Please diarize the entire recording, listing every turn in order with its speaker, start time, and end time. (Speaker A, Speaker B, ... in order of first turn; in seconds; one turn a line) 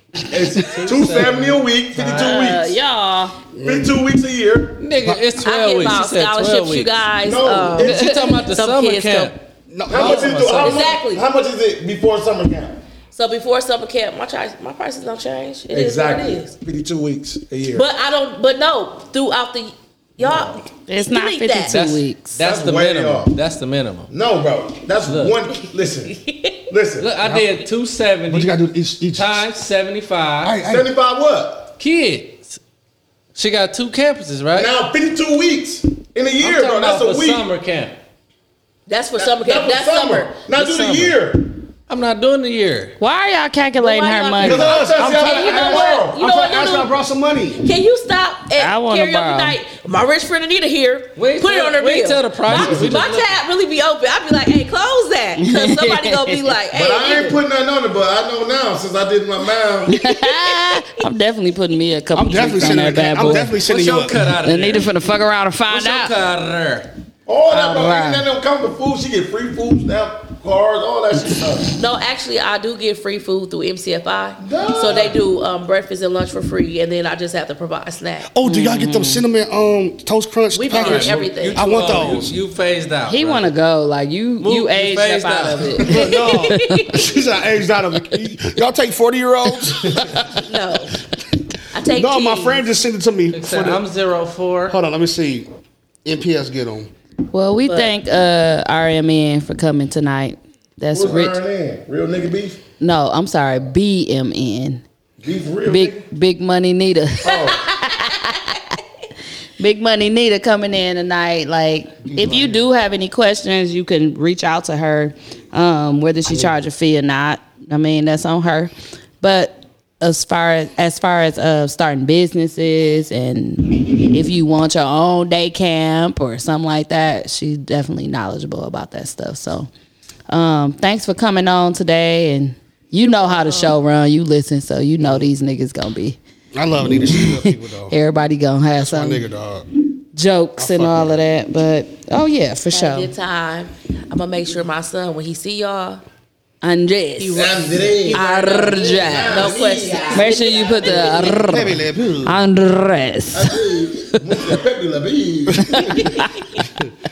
Speaker A: 0.3-2.8
Speaker B: 0.7-1.7
Speaker C: 1.9-3.4
Speaker D: 3.5-4.0
Speaker A: 3.6-4.8
Speaker B: 4.8-7.0
Speaker E: 5.4-9.4
Speaker A: 7.2-8.1
Speaker C: 7.8-8.4
Speaker B: 7.8-9.3
Speaker D: 9.7-10.9
Speaker A: 9.9-12.8
Speaker E: 9.9-11.2
Speaker E: 13.1-16.5
Speaker A: 15.7-17.9
Speaker E: 17.7-21.8
Speaker C: 20.9-22.4
Speaker B: 21.7-24.1
Speaker A: 22.4-23.3
Speaker A: 24.1-26.1
Speaker B: 25.0-25.4
Speaker E: 26.1-26.7
Speaker A: 26.7-27.1
Speaker B: 27.0-28.6
Speaker D: 27.2-27.6
Speaker D: 28.3-29.4
Speaker B: 29.1-30.6
Speaker D: 30.4-30.9
Speaker A: 30.6-31.7
Speaker B: 31.8-32.6
Speaker B: 33.4-34.7
Speaker A: 34.5-37.5
Speaker B: 36.4-38.0
Speaker E: 38.9-40.4
Speaker A: 39.2-41.6
Speaker C: 40.5-41.1
Speaker B: 41.9-43.0
Speaker C: 43.0-45.0
Speaker E: 43.8-47.0
Speaker A: 44.4-46.2
Speaker D: 44.7-47.6
Speaker E: 47.6-57.4
Speaker C: 48.5-49.6
Speaker B: 51.2-53.4
Speaker C: 55.4-56.5
Speaker A: 56.7-60.0
Speaker C: 59.9-63.6
Speaker E: 60.0-61.0
Speaker D: 62.1-64.4
Speaker B: 63.5-65.0
Speaker C: 64.4-66.1
Speaker B: 65.7-66.9
Speaker A: 67.3-71.8
Speaker C: 67.5-68.3
Speaker E: 71.8-78.3
Speaker A: 74.4-75.2
Speaker D: 78.3-82.3
Speaker C: 78.4-79.2
Speaker E: 80.5-81.7
Speaker B: 80.7-83.6
Speaker C: 83.1-87.0
Speaker B: 84.4-85.9
Speaker D: 85.8-90.2
Speaker E: 85.9-87.0
Speaker E: 90.5-91.0
Speaker E: 91.7-92.7
Speaker D: 91.9-93.8
Speaker B: 93.3-94.8
Speaker D: 94.7-95.5
Speaker D: 96.0-96.9
Speaker C: 97.3-101.4
Speaker E: 97.7-98.0
Speaker A: 100.9-102.6
Speaker C: 102.8-104.8
Speaker A: 105.2-106.0
Speaker C: 105.6-108.6
Speaker A: 107.2-107.7
Speaker E: 107.7-108.2
Speaker C: 109.6-129.7
Speaker A: 112.2-112.4
Speaker C: 130.3-136.2
Speaker E: 133.0-133.8
Speaker D: 136.5-137.9
Speaker C: 136.9-139.3
Speaker D: 138.7-139.7
Speaker C: 140.2-143.1
Speaker D: 140.6-141.2
Speaker E: 142.7-146.0
Speaker C: 146.6-147.6
Speaker E: 147.2-151.5
Speaker A: 147.3-151.4
Speaker C: 148.1-153.8
Speaker D: 151.4-152.4
Speaker A: 153.3-156.2
Speaker D: 155.5-156.0
Speaker C: 155.6-156.4